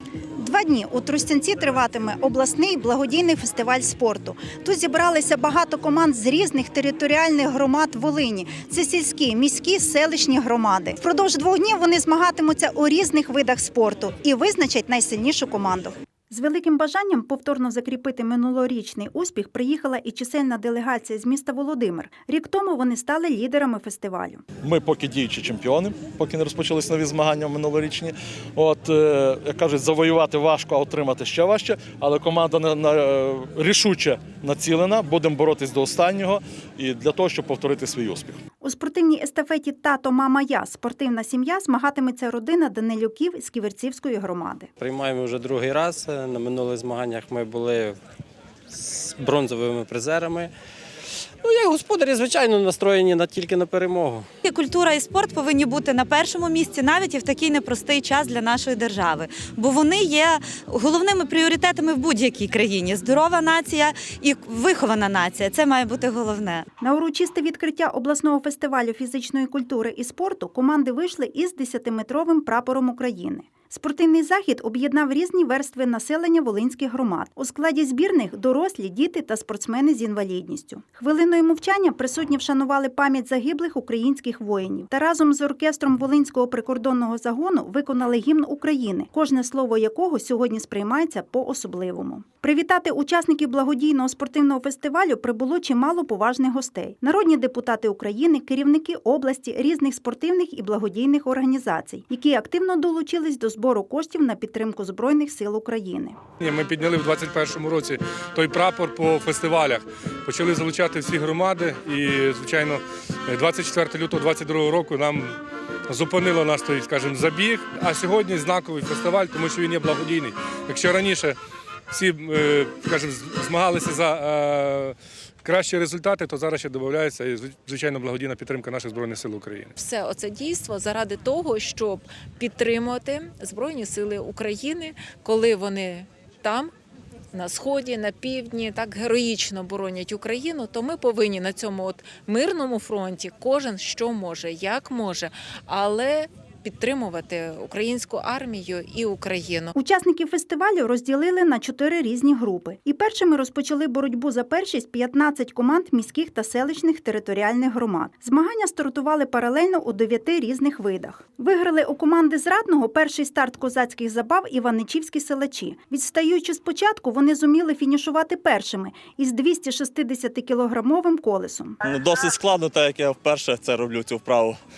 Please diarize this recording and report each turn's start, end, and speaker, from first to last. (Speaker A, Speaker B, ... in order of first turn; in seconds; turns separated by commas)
Speaker A: 0.4-24.4, Speaker B: 24.6-38.4, Speaker A: 38.6-44.7, Speaker C: 44.8-48.0, Speaker C: 48.7-50.5, Speaker C: 51.4-54.3, Speaker D: 54.4-66.6, Speaker A: 66.8-106.2, Speaker E: 106.4-115.3, Speaker E: 115.9-121.4, Speaker E: 121.9-129.7, Speaker F: 129.8-136.7, Speaker F: 137.3-149.7, Speaker A: 149.8-171.8, Speaker G: 171.9-174.6